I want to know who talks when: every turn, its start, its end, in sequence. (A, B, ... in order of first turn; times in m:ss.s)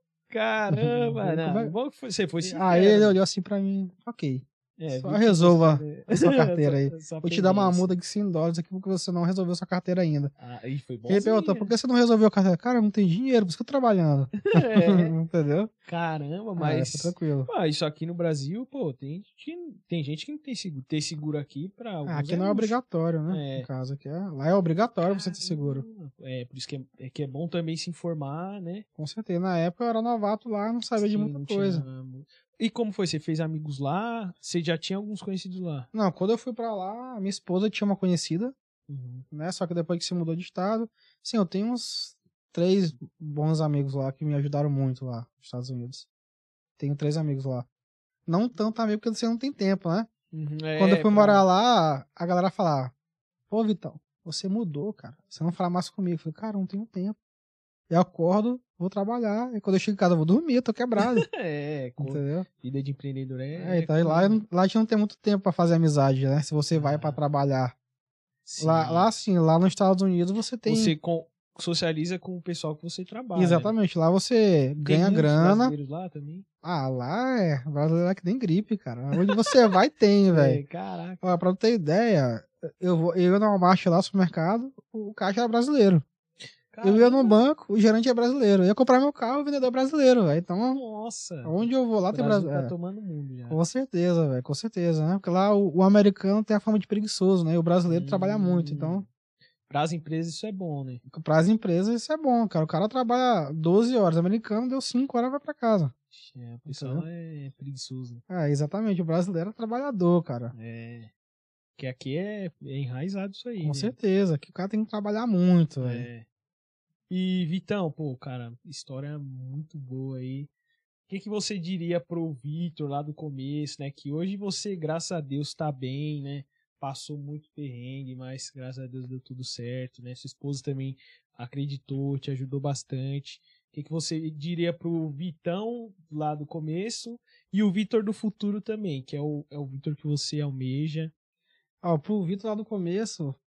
0:00.3-0:03.2 A
0:00.7-0:01.8 B
0:02.4-0:10.3 B
0:04.8-0:08.0 A
0:10.4-0:11.7 A
0:11.1-0:15.7 B
0:14.4-0:15.1 A
0:15.8-0:23.7 A
0:16.6-0:17.5 B
0:22.0-0:25.8 B
0:25.0-0:28.8 A
0:29.0-0:31.8 B
0:31.0-0:35.9 A
0:35.9-0:38.5 B
0:38.9-0:39.2 A
0:39.3-0:46.1 B
0:46.8-0:47.6 B
0:48.3-0:50.1 B
0:50.3-0:51.5 A
0:50.8-0:52.9 B
0:53.5-0:57.2 B
0:57.9-1:01.3 B
1:01.0-1:04.4 A
1:02.0-1:02.4 B
1:03.6-1:07.7 B
1:06.7-1:07.2 A
1:08.4-1:09.1 A
1:08.6-1:10.9 B
1:10.6-1:13.7 A
1:13.3-1:15.7 B
1:14.8-1:16.4 A
1:16.6-1:20.6 B
1:19.1-1:19.7 A
1:20.3-1:21.2 A
1:21.2-1:26.0 B
1:26.7-1:27.4 A
1:26.8-1:30.8 B
1:30.7-1:33.6 A
1:31.4-1:32.7 B
1:33.5-1:39.0 B
1:37.9-1:39.0 A
1:39.7-1:41.0 A
1:41.1-1:45.9 B
1:46.1-1:48.2 A
1:46.6-1:47.0 B
1:48.3-1:50.5 B
1:50.5-1:51.1 A
1:51.8-1:54.0 A
1:53.6-1:56.1 B
1:55.8-1:56.2 A
1:57.1-2:00.5 A
2:01.1-2:21.1 A
2:21.8-2:23.4 B